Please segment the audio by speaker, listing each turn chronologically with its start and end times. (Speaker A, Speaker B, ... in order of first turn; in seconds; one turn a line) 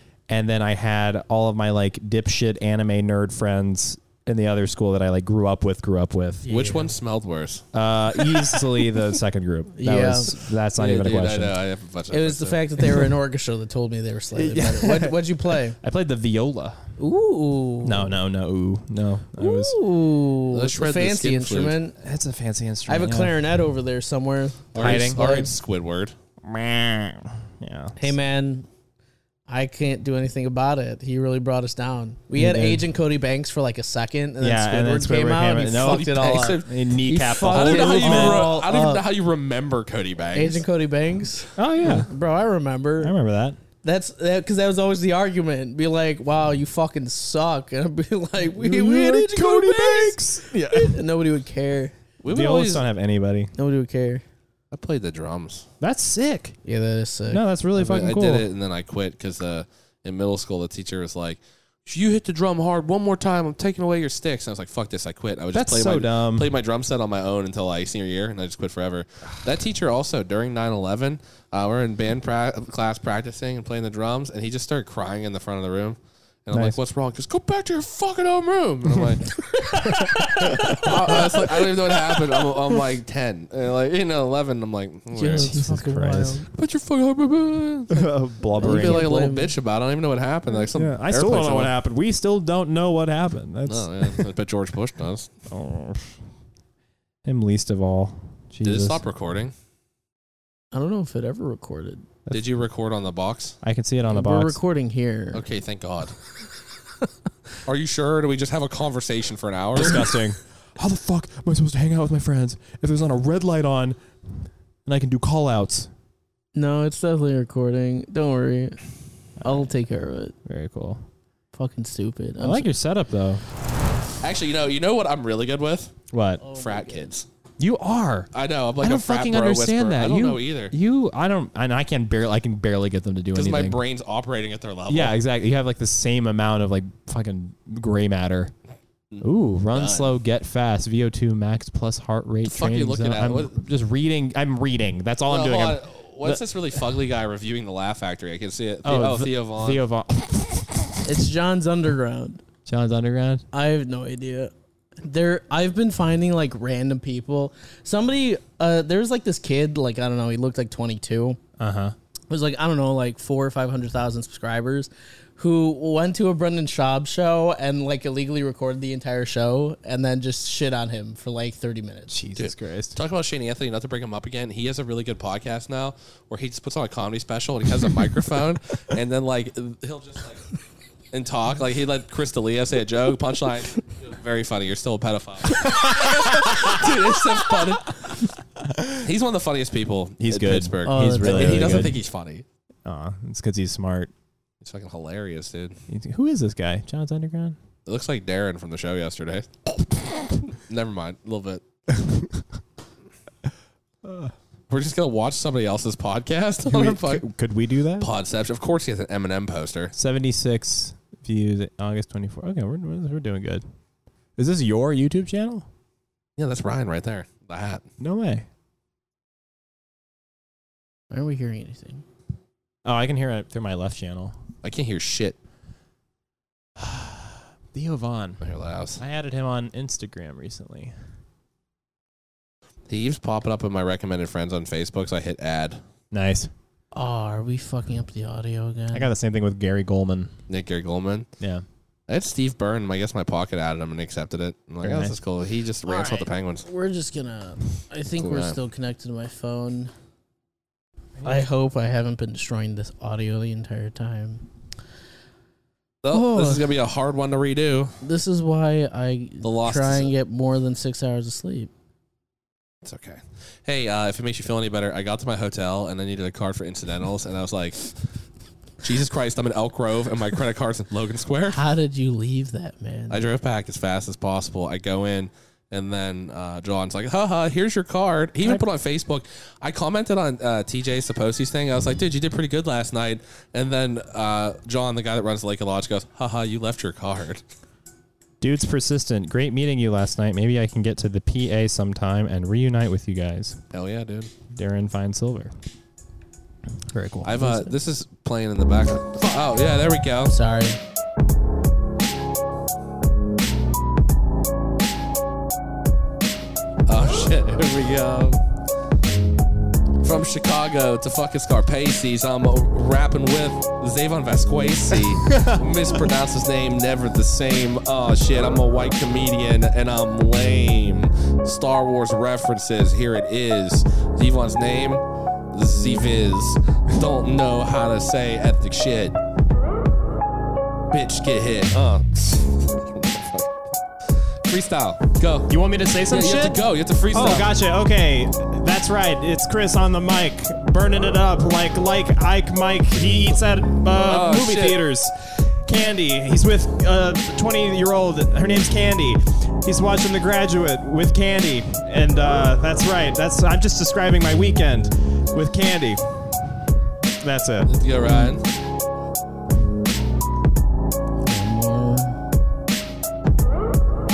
Speaker A: 0.3-6.5
Speaker B: 6.4-6.9
Speaker C: 6.5-7.7
Speaker A: 7.7-11.6
Speaker B: 9.8-10.4
Speaker C: 10.8-12.6
Speaker B: 12.1-15.8
Speaker A: 14.3-16.8
Speaker B: 17.0-18.1
Speaker A: 17.8-19.8
Speaker B: 19.4-22.0
Speaker C: 20.5-21.8
Speaker A: 22.0-23.4
Speaker B: 22.9-25.5
Speaker C: 24.8-26.1
Speaker A: 24.8-25.2
Speaker A: 26.4-28.1
Speaker B: 28.0-28.7
Speaker B: 29.5-39.0
Speaker A: 32.4-32.8
Speaker A: 34.4-38.6
Speaker C: 35.8-40.6
Speaker B: 40.3-43.1
Speaker A: 41.6-42.1
Speaker A: 43.0-43.6
Speaker B: 43.8-52.0
Speaker A: 48.5-51.0
Speaker C: 52.2-52.8
Speaker A: 52.3-53.5
Speaker B: 53.6-54.2
Speaker C: 54.7-55.7
Speaker A: 55.8-56.6
Speaker B: 56.6-57.4
Speaker A: 57.3-58.5
Speaker C: 57.8-79.4
Speaker A: 65.5-66.5
Speaker B: 79.5-81.7
Speaker A: 79.9-81.4
Speaker C: 80.5-85.5
Speaker B: 85.1-86.5
Speaker A: 85.3-86.4
Speaker C: 86.5-88.0
Speaker A: 87.9-89.1
Speaker B: 88.6-89.5
Speaker C: 88.6-91.7
Speaker A: 90.7-94.3
Speaker C: 93.7-95.3
Speaker A: 95.5-96.2
Speaker A: 97.2-99.0
Speaker C: 98.6-99.5
Speaker B: 100.7-102.1
Speaker C: 102.3-103.6
Speaker A: 103.6-104.6
Speaker B: 104.1-105.4
Speaker C: 105.3-106.2
Speaker C: 107.7-110.1
Speaker A: 109.8-114.0
Speaker A: 114.9-115.9
Speaker B: 116.5-118.8
Speaker B: 119.4-120.3
Speaker A: 119.4-119.7
Speaker A: 120.5-121.0
Speaker B: 121.5-122.7
Speaker A: 122.4-123.4
Speaker C: 124.2-125.9
Speaker A: 126.1-126.4
Speaker B: 126.4-127.1
Speaker C: 126.5-127.3
Speaker A: 127.6-128.3
Speaker C: 128.3-130.7
Speaker A: 128.8-133.8
Speaker C: 133.3-135.2
Speaker A: 134.9-138.5
Speaker C: 139.1-140.1
Speaker A: 139.2-146.4
Speaker C: 142.5-143.6
Speaker C: 145.3-149.8
Speaker A: 148.8-151.2
Speaker B: 151.1-152.4
Speaker A: 152.7-153.4
Speaker B: 153.5-161.4
Speaker A: 161.6-161.9
Speaker B: 162.3-172.2
Speaker A: 172.1-173.0
Speaker C: 172.4-180.5
Speaker C: 181.1-188.0
Speaker A: 185.6-186.9
Speaker A: 188.6-189.1
Speaker C: 189.0-192.4
Speaker A: 190.2-192.0
Speaker B: 190.8-191.9
Speaker A: 192.8-194.1
Speaker C: 194.6-195.8
Speaker A: 195.9-197.6
Speaker C: 197.9-199.5
Speaker C: 200.5-201.6
Speaker A: 201.9-202.4
Speaker A: 204.0-204.3
Speaker C: 204.7-207.2
Speaker A: 206.7-208.1
Speaker C: 208.0-209.9
Speaker A: 210.0-213.6
Speaker A: 214.4-215.7
Speaker C: 216.4-217.8
Speaker A: 218.0-218.5
Speaker B: 221.1-222.0
Speaker A: 222.8-224.4
Speaker C: 224.6-225.4
Speaker A: 226.8-228.4
Speaker C: 228.4-229.0
Speaker A: 229.0-230.9
Speaker C: 232.9-235.8
Speaker A: 236.1-236.5
Speaker B: 236.9-239.1
Speaker A: 238.9-240.3
Speaker C: 240.5-241.3
Speaker C: 242.1-246.7
Speaker A: 244.8-245.2
Speaker B: 245.9-249.9
Speaker C: 248.2-248.6
Speaker B: 251.2-254.4
Speaker C: 256.0-257.9
Speaker B: 256.1-256.7
Speaker B: 258.0-261.7
Speaker C: 259.4-260.1
Speaker C: 262.8-267.9
Speaker C: 268.8-271.6
Speaker B: 271.5-273.2
Speaker C: 273.1-287.4
Speaker A: 288.4-293.6
Speaker C: 293.7-294.3
Speaker A: 294.5-295.5
Speaker A: 296.9-297.4
Speaker C: 297.2-300.3
Speaker B: 297.4-297.7
Speaker B: 300.3-300.8
Speaker C: 306.9-308.4
Speaker C: 310.0-329.2
Speaker A: 315.3-315.6
Speaker C: 330.9-333.6
Speaker C: 334.5-335.5
Speaker A: 335.5-356.6
Speaker C: 336.1-337.5
Speaker C: 344.1-344.8
Speaker A: 357.2-357.7
Speaker C: 357.7-358.5
Speaker B: 361.2-362.2